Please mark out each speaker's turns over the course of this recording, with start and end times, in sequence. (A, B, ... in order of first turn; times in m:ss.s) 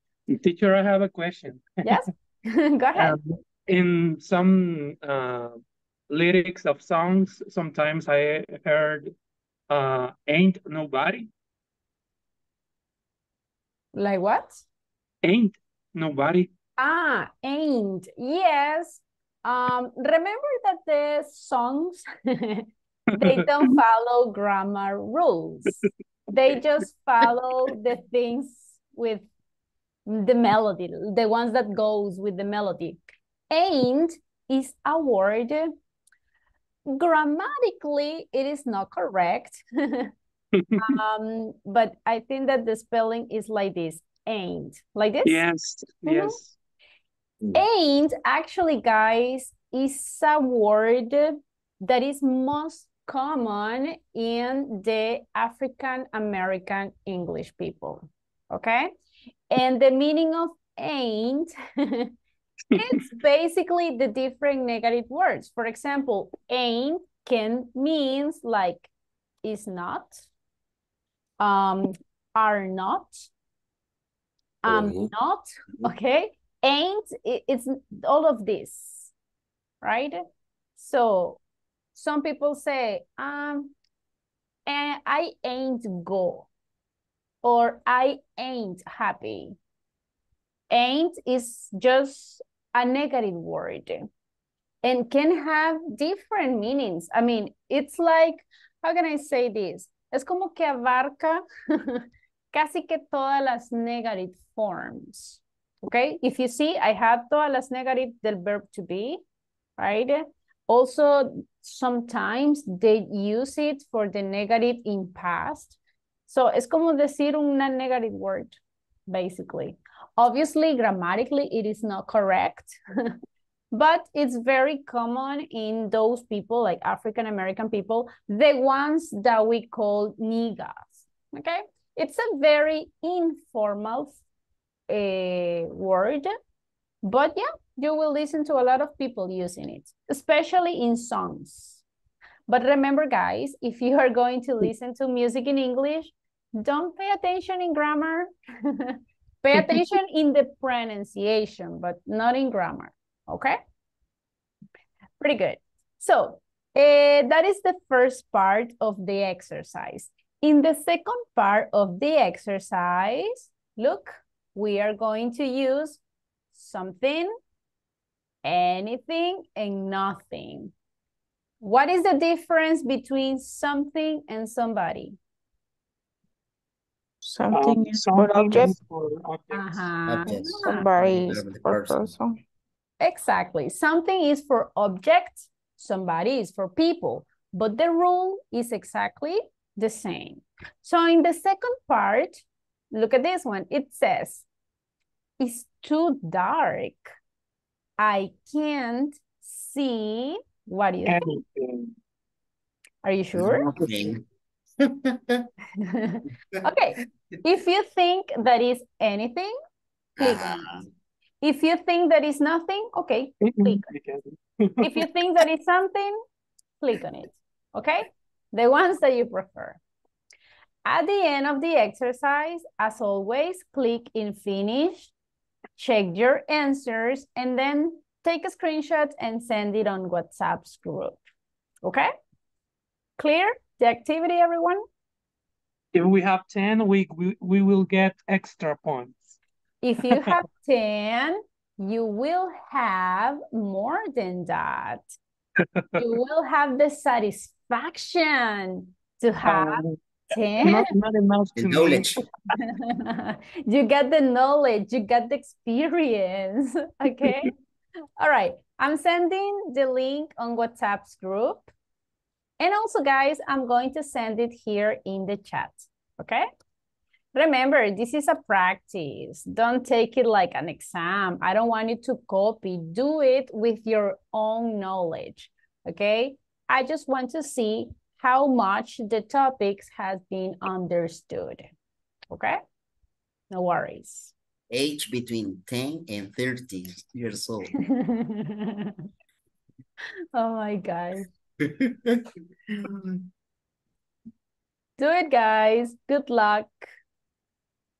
0:00.3-0:02.0 A
0:01.8-0:03.2 B
0:03.0-0:09.1 A
0:09.7-0:11.3 A
0:13.9-0:14.6 B
0:15.2-0:16.5 A
0:16.8-0:25.8 B
0:23.2-0:23.4 A
0:26.3-0:29.3 B
0:30.0-0:33.0 B
0:33.5-0:35.7 B
0:36.9-0:40.1 B
0:40.6-0:40.8 A
0:40.8-0:45.4 B
0:45.2-0:46.5 A
0:46.1-0:46.4 B
0:47.5-0:58.9 B
0:59.5-1:02.1 B
1:02.7-1:08.9 B
1:09.4-1:10.2 B
1:11.4-1:13.2 B
1:14.6-1:19.1 B
1:19.8-1:20.2 B
1:20.8-1:21.4 B
1:21.9-1:23.7 B
1:24.6-1:26.5 B
1:27.4-1:29.6 B
1:30.7-1:34.1 B
1:34.8-1:49.2 B
1:49.8-1:55.8 B
1:56.3-2:03.1 B
2:03.7-2:14.2 B
2:14.9-2:16.3 B
2:17.0-2:21.8 B
2:22.5-2:33.6 B
2:35.2-2:46.0 B
2:46.5-2:47.3 B
2:48.4-2:50.7 B
2:51.6-2:55.2 B
2:57.2-2:58.8 C
2:57.5-2:59.9 A
2:59.5-3:00.9 B
3:00.0-3:02.1 D
3:00.6-3:02.4 C
3:03.0-3:14.4 B
3:15.4-3:17.1 B
3:18.0-3:21.3 B
3:21.0-3:21.9 A
3:23.0-3:23.7 B
3:23.3-3:24.2 D
3:23.8-3:24.1 A
3:24.8-3:25.5 D
3:25.8-3:29.5 B
3:30.2-3:30.9 D
3:30.2-3:30.5 B
3:31.4-3:33.8 B
3:33.4-3:35.1 A
3:34.8-3:36.2 B
3:36.8-3:39.8 B
3:40.8-3:45.1 B
3:45.8-3:51.2 B
3:51.8-3:52.1 B
3:53.2-3:54.8 B
3:55.9-3:59.4 A
3:59.8-4:05.0 B
4:00.1-4:00.4 A
4:05.8-4:06.1 A
4:06.0-4:10.9 B
4:09.4-4:10.0 A
4:10.6-4:12.2 A
4:11.5-4:12.2 D
4:12.6-4:17.5 B
4:18.2-4:21.7 B
4:22.6-4:26.4 B
4:27.3-4:41.7 B
4:42.3-4:42.6 B
4:43.5-4:44.3 B
4:44.7-4:47.7 D
4:47.8-4:49.0 B
4:50.3-4:51.3 B
4:51.6-4:53.2 D
4:55.0-4:56.9 B